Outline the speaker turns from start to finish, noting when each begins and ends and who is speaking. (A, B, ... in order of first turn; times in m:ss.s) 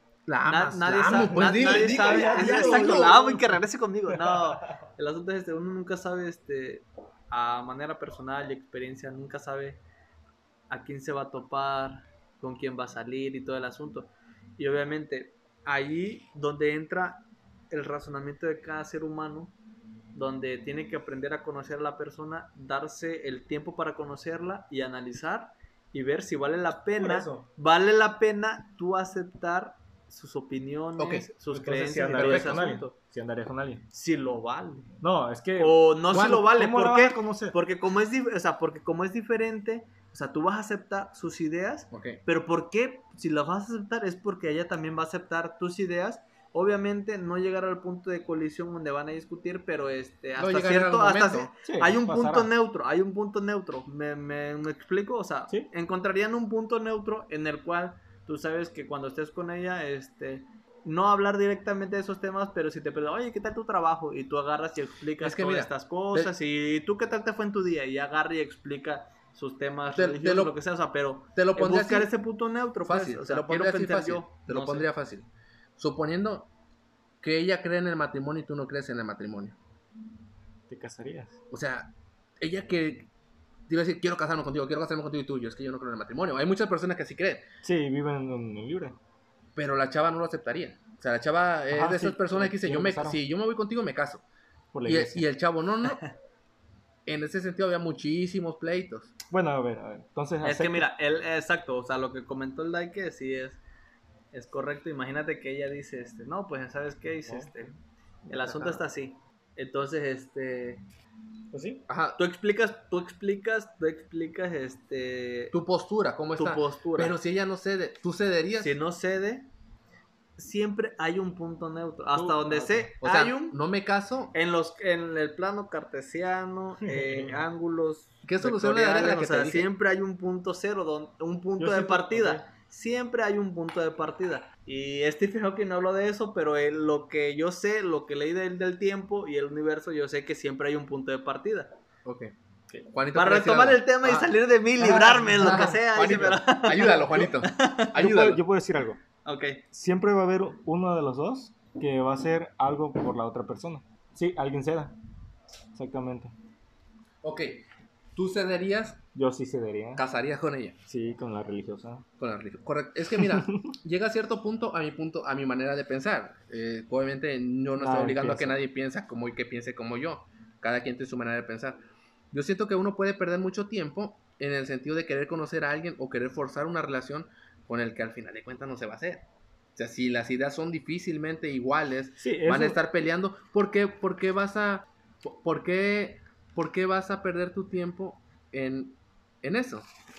0:00.3-0:03.1 A
0:00.4-0:09.8 B
0:01.1-0:04.6 C
0:10.7-0:19.6 B
0:20.1-0:32.9 B
0:26.9-0:27.5 C
0:31.0-0:31.3 A
0:31.5-0:33.8 C
0:32.1-0:32.6 A
0:33.9-0:34.9 B
0:35.0-0:37.6 C
0:35.6-1:14.9 B
0:36.1-0:36.4 A
0:41.9-0:42.2 A
0:50.4-0:51.5 A
0:51.6-0:52.5 C
1:05.2-1:06.3 A
1:09.9-1:10.5 A
1:11.4-1:12.1 A
1:12.8-1:16.5 A
1:17.2-1:19.6 A
1:20.7-1:21.4 C
1:21.5-1:23.1 A
1:23.7-1:27.4 A
1:27.6-1:29.0 C
1:29.6-1:34.2 A
1:31.7-1:33.2 C
1:34.7-1:35.2 C
1:34.9-1:36.0 A
1:37.1-1:39.1 A
1:39.3-1:40.9 C
1:40.4-1:43.6 B
1:44.3-1:47.7 B
1:47.2-1:47.6 C
1:48.3-1:50.8 B
1:48.3-1:48.8 A
1:51.5-1:51.8 C
1:51.9-1:52.2 A
1:52.2-1:55.6 B
1:55.5-1:58.8 A
1:56.4-1:57.1 B
1:58.6-1:59.5 B
2:00.4-2:03.6 B
2:02.1-2:02.9 C
2:03.0-2:04.4 A
2:04.3-2:21.7 B
2:06.8-2:07.5 C
2:08.2-2:09.7 A
2:11.6-2:12.4 C
2:22.0-2:22.3 A
2:22.9-2:28.4 A
2:23.1-2:27.9 B
2:27.9-2:29.0 C
2:29.2-2:29.6 B
2:29.7-2:35.0 C
2:35.7-2:36.3 C
2:37.2-2:37.6 A
2:38.2-2:39.0 A
2:39.1-2:40.0 C
2:40.0-2:40.8 A
2:40.9-2:42.1 C
2:42.2-2:51.8 A
2:43.1-2:43.7 C
2:47.8-2:48.6 C
2:52.3-3:09.9 A
3:02.2-3:02.8 C